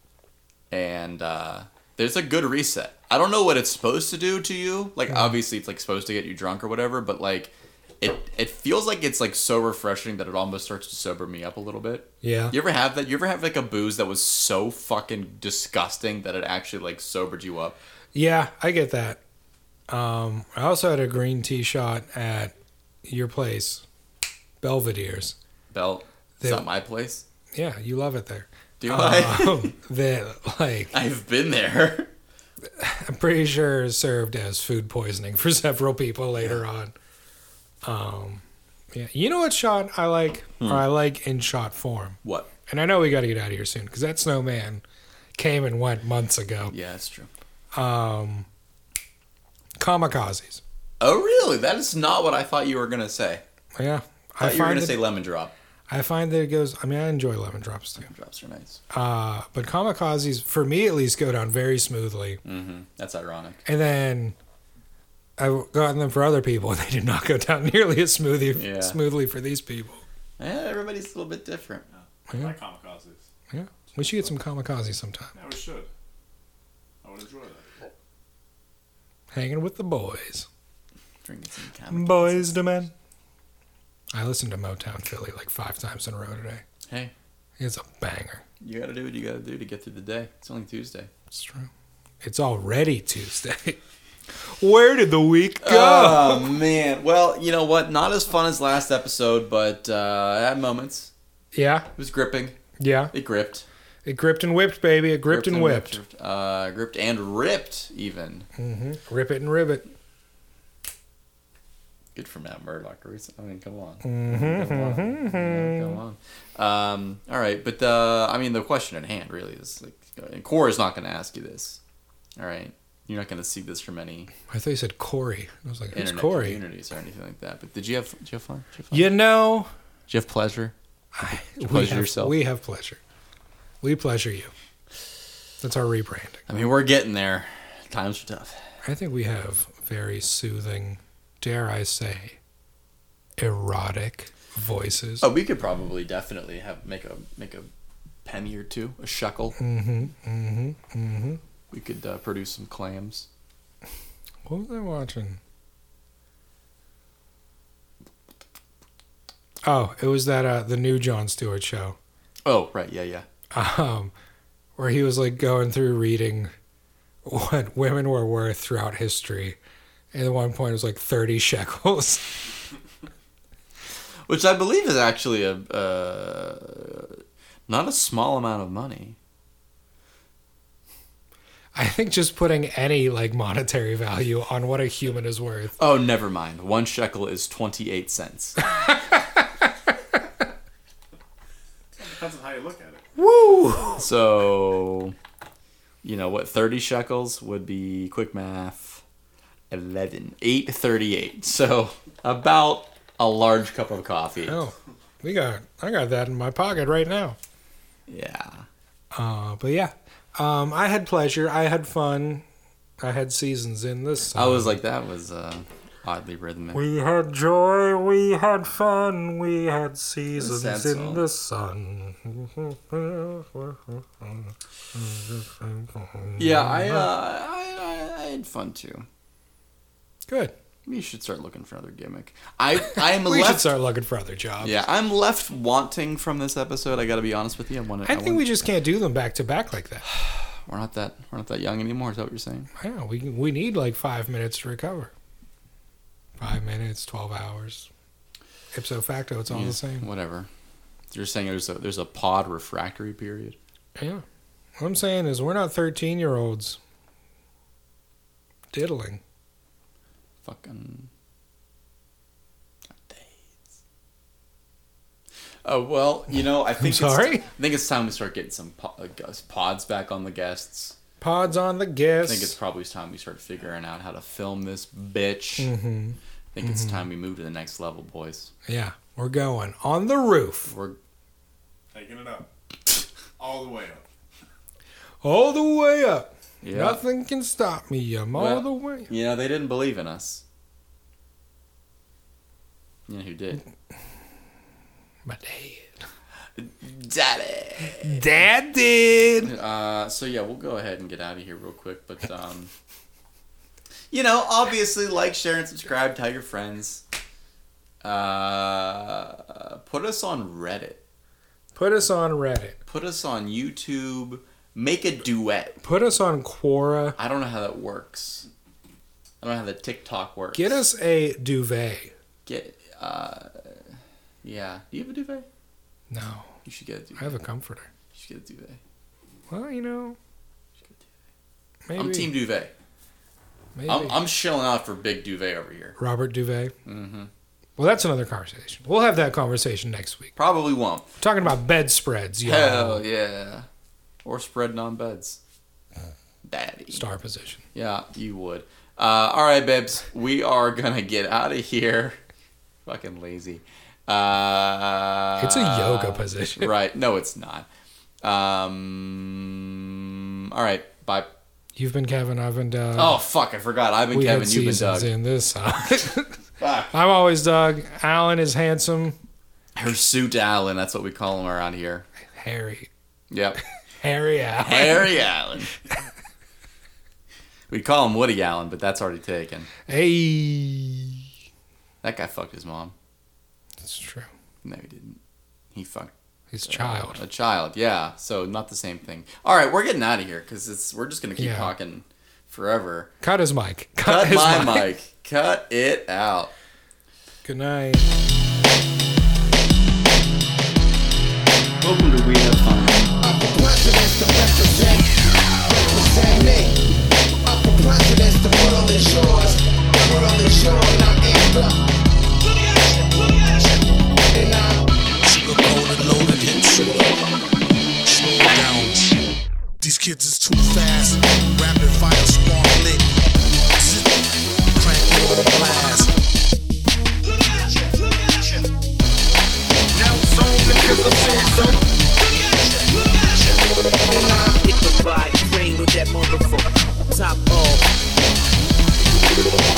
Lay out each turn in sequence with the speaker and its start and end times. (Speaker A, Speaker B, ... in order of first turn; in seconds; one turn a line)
Speaker A: 0.7-17.8
Speaker B: 12.2-12.5
Speaker B: 18.1-19.2
Speaker B: 19.9-22.5
Speaker B: 23.0-23.8
Speaker B: 24.6-25.3
Speaker A: 25.7-27.2
Speaker B: 26.4-26.7
Speaker B: 27.5-30.9
Speaker A: 28.8-29.7
Speaker A: 30.9-32.1
Speaker B: 32.8-36.9
Speaker B: 37.8-38.4
Speaker B: 38.9-44.8
Speaker A: 42.2-42.5
Speaker B: 45.4-46.7
Speaker A: 46.7-47.3
Speaker B: 47.7-48.5
Speaker B: 49.8-50.6
Speaker A: 51.0-53.4
Speaker B: 53.8-55.0
Speaker A: 54.4-55.5
Speaker B: 55.9-58.1
Speaker A: 58.0-58.8
Speaker B: 58.9-62.4
Speaker A: 62.4-63.6
Speaker B: 63.6-64.3
Speaker B: 65.4-70.0
Speaker A: 68.5-69.0
Speaker A: 70.4-71.8
Speaker C: 71.9-73.2
Speaker B: 73.5-75.3
Speaker C: 75.3-75.9
Speaker C: 77.0-77.7
Speaker B: 79.3-80.5
Speaker A: 81.2-82.8
Speaker B: 81.9-82.9
Speaker B: 84.1-86.6
Speaker A: 86.9-87.1
Speaker B: 87.6-88.4
Speaker A: 88.6-91.1
Speaker B: 91.3-91.7
Speaker B: 92.2-93.8
Speaker B: 94.6-96.5
Speaker A: 95.6-101.1
Speaker B: 101.5-101.9
Speaker A: 102.0-102.5
Speaker B: 102.8-103.1
Speaker A: 103.1-103.7
Speaker B: 104.0-106.0
Speaker A: 105.3-108.5
Speaker B: 108.6-109.8
Speaker A: 112.1-121.8
Speaker B: 114.0-116.0
Speaker A: 122.4-124.3
Speaker B: 124.5-126.6
Speaker A: 125.9-129.1
Speaker B: 128.9-129.7
Speaker A: 130.1-130.7
Speaker B: 131.2-133.0
Speaker A: 131.6-132.3
Speaker B: 133.8-134.5
Speaker B: 135.6-136.4
Speaker A: 136.5-138.6
Speaker B: 138.8-142.4
Speaker B: 143.4-145.3
Speaker A: 145.2-147.7
Speaker A: 148.2-149.6
Speaker B: 149.6-151.4
Speaker A: 151.7-153.3
Speaker B: 154.4-155.4
Speaker B: 159.6-162.0
Speaker A: 162.4-163.2
Speaker B: 163.5-164.1
Speaker B: 164.8-166.5
Speaker B: 167.2-169.6
Speaker B: 170.1-172.4
Speaker A: 174.3-179.2
Speaker B: 181.7-185.8
Speaker A: 185.8-188.6
Speaker C: 192.0-193.1
Speaker B: 193.2-194.0
Speaker A: 194.0-195.1
Speaker A: 196.0-199.0
Speaker A: 199.7-204.5
Speaker B: 204.4-207.4
Speaker A: 208.1-208.7
Speaker B: 209.1-212.4
Speaker B: 213.0-214.8
Speaker A: 214.3-216.8
Speaker B: 216.7-227.1
Speaker A: 220.3-221.2
Speaker A: 226.4-229.1
Speaker B: 230.3-230.5
Speaker A: 230.8-233.7
Speaker B: 232.9-234.8
Speaker A: 234.6-238.4
Speaker B: 238.0-240.1
Speaker A: 240.1-242.7
Speaker B: 242.8-245.1
Speaker B: 246.4-247.9
Speaker B: 248.7-250.1
Speaker A: 249.5-250.5
Speaker A: 251.1-253.6
Speaker B: 254.0-254.2
Speaker B: 254.8-256.8
Speaker B: 258.7-259.2
Speaker A: 260.4-261.1
Speaker A: 263.0-263.3
Speaker A: 265.6-270.9
Speaker B: 266.8-267.4
Speaker B: 271.2-272.5
Speaker A: 272.2-275.7
Speaker B: 275.6-277.0
Speaker A: 276.5-278.5
Speaker B: 278.7-280.7
Speaker A: 280.7-281.0
Speaker C: 281.9-282.5
Speaker C: 283.4-284.0
Speaker B: 285.2-289.1
Speaker A: 286.6-287.0
Speaker A: 288.3-290.4
Speaker A: 293.1-293.6
Speaker B: 295.2-296.0
Speaker A: 296.6-298.3
Speaker B: 298.0-299.5
Speaker A: 299.4-302.7
Speaker A: 304.1-307.0
Speaker A: 308.0-311.0
Speaker B: 311.7-312.8
Speaker A: 312.9-315.8
Speaker B: 315.8-317.2
Speaker A: 317.2-318.5
Speaker A: 319.4-320.8
Speaker B: 320.5-322.1
Speaker A: 322.4-323.8
Speaker A: 324.4-325.4
Speaker B: 326.1-326.6
Speaker A: 326.6-327.3
Speaker B: 327.2-327.9
Speaker A: 328.1-328.8
Speaker B: 329.5-330.2
Speaker B: 331.9-332.3
Speaker A: 331.9-332.7
Speaker B: 333.8-334.1
Speaker A: 333.9-336.0
Speaker B: 336.0-336.7
Speaker A: 336.9-337.3
Speaker B: 337.8-340.3
Speaker A: 340.4-341.1
Speaker B: 341.2-343.0
Speaker A: 342.4-343.7
Speaker A: 344.2-345.4
Speaker A: 346.4-347.0
Speaker B: 346.9-347.6
Speaker A: 347.7-352.2
Speaker A: 352.8-357.7
Speaker B: 355.4-356.7
Speaker A: 358.2-361.3
Speaker B: 361.8-363.2
Speaker A: 362.9-365.1
Speaker B: 364.1-366.4
Speaker A: 366.6-366.9
Speaker B: 366.9-369.1
Speaker A: 369.7-372.1
Speaker B: 372.3-372.9
Speaker A: 373.3-373.6
Speaker B: 374.0-375.1
Speaker A: 374.6-375.7
Speaker A: 377.7-379.7
Speaker B: 379.9-381.2
Speaker A: 382.0-382.9
Speaker B: 383.8-384.3
Speaker A: 384.6-385.2
Speaker A: 385.7-386.1
Speaker B: 386.5-387.2
Speaker A: 386.6-393.1
Speaker B: 391.4-391.7
Speaker B: 393.2-394.9
Speaker A: 394.0-396.5
Speaker B: 397.4-398.1
Speaker A: 401.8-403.1
Speaker D: 403.2-406.8
Speaker D: 407.4-411.8
Speaker D: 412.4-414.9
Speaker E: 415.2-417.1
Speaker E: 418.0-419.2
Speaker E: 419.8-423.1
Speaker E: 423.8-424.2
Speaker E: 424.7-426.1
Speaker D: 427.3-428.6
Speaker E: 429.9-431.7
Speaker D: 430.5-437.8